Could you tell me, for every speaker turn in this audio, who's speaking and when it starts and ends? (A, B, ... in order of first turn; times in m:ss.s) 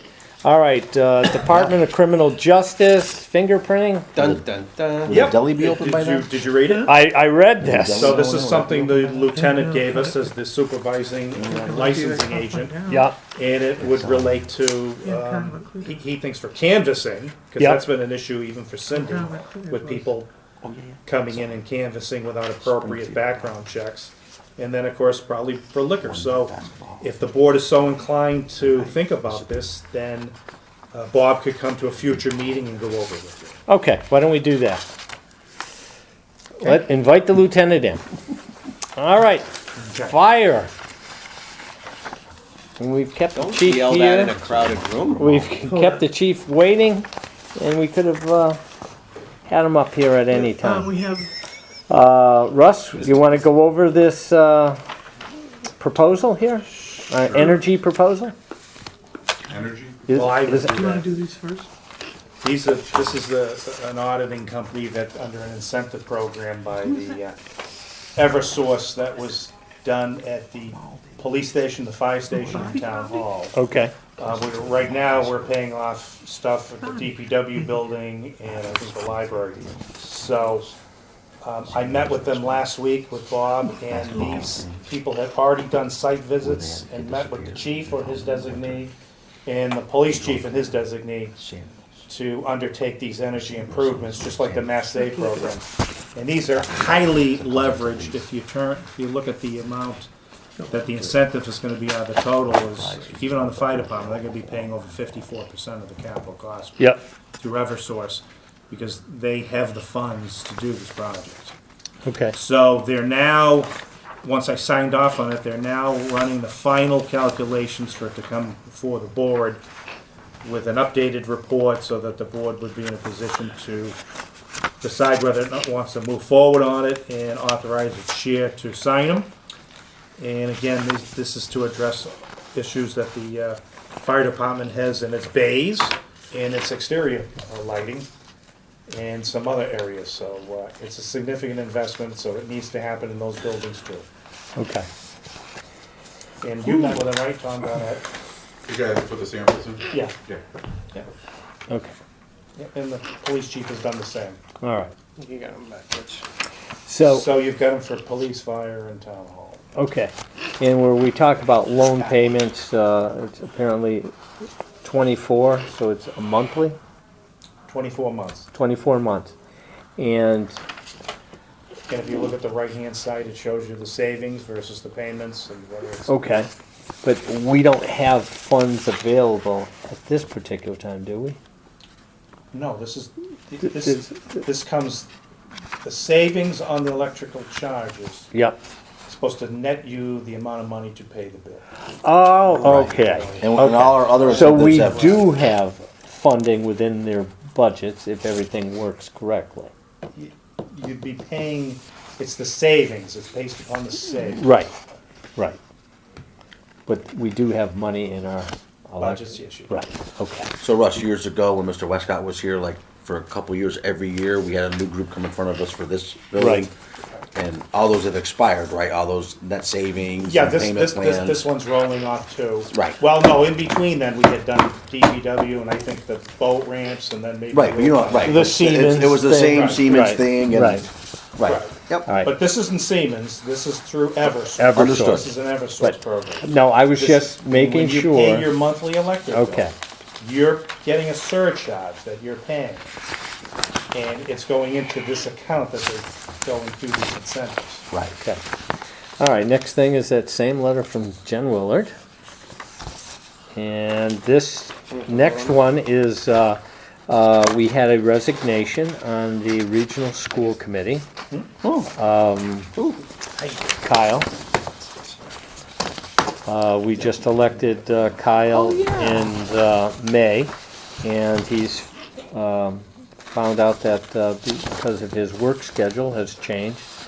0:00.4-0:04.1 A
0:04.1-0:05.3 B
0:04.2-0:04.4 C
0:05.0-0:06.3 C
0:05.1-0:07.0 D
0:06.8-0:08.2 A
0:07.6-0:09.0 C
0:07.9-0:20.3 D
0:09.0-0:10.3 E
0:11.4-0:11.9 C
0:11.5-0:13.1 E
0:12.9-0:13.2 A
0:13.8-0:14.5 C
0:15.0-0:16.0 E
0:18.9-0:20.1 E
0:20.6-0:21.6 C
0:21.0-0:30.4 D
0:22.6-0:23.5 C
0:26.0-0:27.1 C
0:28.6-0:29.7 C
0:30.9-0:33.6 D
0:33.7-0:34.8 A
0:36.6-0:38.0 A
0:39.0-0:39.5 A
0:39.8-0:40.2 D
0:40.0-0:40.7 A
0:42.8-0:44.4 A
0:43.4-0:45.3 B
0:44.4-0:45.6 C
0:45.2-0:48.6 A
0:45.7-0:46.0 E
0:49.5-0:51.0 A
0:50.6-0:51.3 E
0:51.9-0:54.8 A
0:55.8-0:58.3 A
0:59.5-1:00.2 F
1:00.1-1:01.0 A
1:00.1-1:01.2 D
1:00.7-1:01.7 E
1:02.4-1:07.4 D
1:08.2-1:13.6 D
1:10.7-1:11.2 C
1:12.4-1:13.2 E
1:13.5-1:14.0 A
1:14.2-1:20.7 D
1:14.2-1:15.6 C
1:16.8-1:17.8 E
1:18.4-1:20.7 C
1:21.4-1:28.9 D
1:21.7-1:22.7 C
1:23.9-1:24.9 C
1:26.4-1:28.9 C
1:29.5-1:31.4 D
1:30.0-1:30.7 C
1:31.4-1:32.0 C
1:32.1-1:40.1 D
1:33.4-1:35.3 C
1:36.6-1:38.3 C
1:40.7-1:51.5 D
1:42.6-1:44.9 C
1:46.8-1:47.0 A
1:52.0-1:52.4 A
1:52.3-1:59.6 D
2:00.4-2:04.0 D
2:04.8-2:09.3 D
2:10.2-2:18.1 D
2:18.9-2:24.1 D
2:24.6-2:24.9 A
2:26.4-2:28.1 D
2:28.7-2:30.4 F
2:31.7-2:31.9 A
2:32.6-2:34.4 D
2:34.6-2:34.9 A
2:35.2-2:36.2 B
2:36.9-2:37.3 A
2:37.0-2:39.7 D
2:39.8-2:44.1 A
2:42.0-2:42.4 D
2:44.8-2:46.8 A
2:47.7-2:48.5 D
2:48.5-2:49.3 A
2:50.0-2:50.6 A
2:51.9-2:56.2 D
2:56.1-2:56.5 A
2:57.0-3:01.4 A
3:02.5-3:05.1 D
3:03.8-3:04.3 A
3:05.8-3:08.3 D
3:08.3-3:08.6 A
3:09.1-3:11.7 D
3:12.0-3:19.7 A
3:12.5-3:15.2 C
3:12.5-3:15.3 D
3:20.2-3:24.5 D
3:24.4-3:24.7 A
3:26.9-3:30.5 A
3:29.0-3:29.8 D
3:30.6-3:36.7 C
3:36.4-3:36.7 A
3:37.4-3:41.5 C
3:40.2-3:48.6 D
3:42.7-3:43.0 C
3:47.5-3:52.1 C
3:48.2-3:50.9 A
3:49.3-3:50.0 D
3:51.4-4:02.9 D
3:52.1-3:52.3 A
3:54.6-3:58.6 A
3:54.7-3:55.3 C
3:59.3-3:59.7 A
4:03.9-4:07.9 D
4:07.9-4:08.2 C
4:09.2-4:11.9 A
4:13.6-4:21.1 A
4:21.6-4:21.9 C
4:22.0-4:22.7 A
4:22.8-4:23.0 C
4:23.8-4:24.3 A
4:26.4-4:36.9 A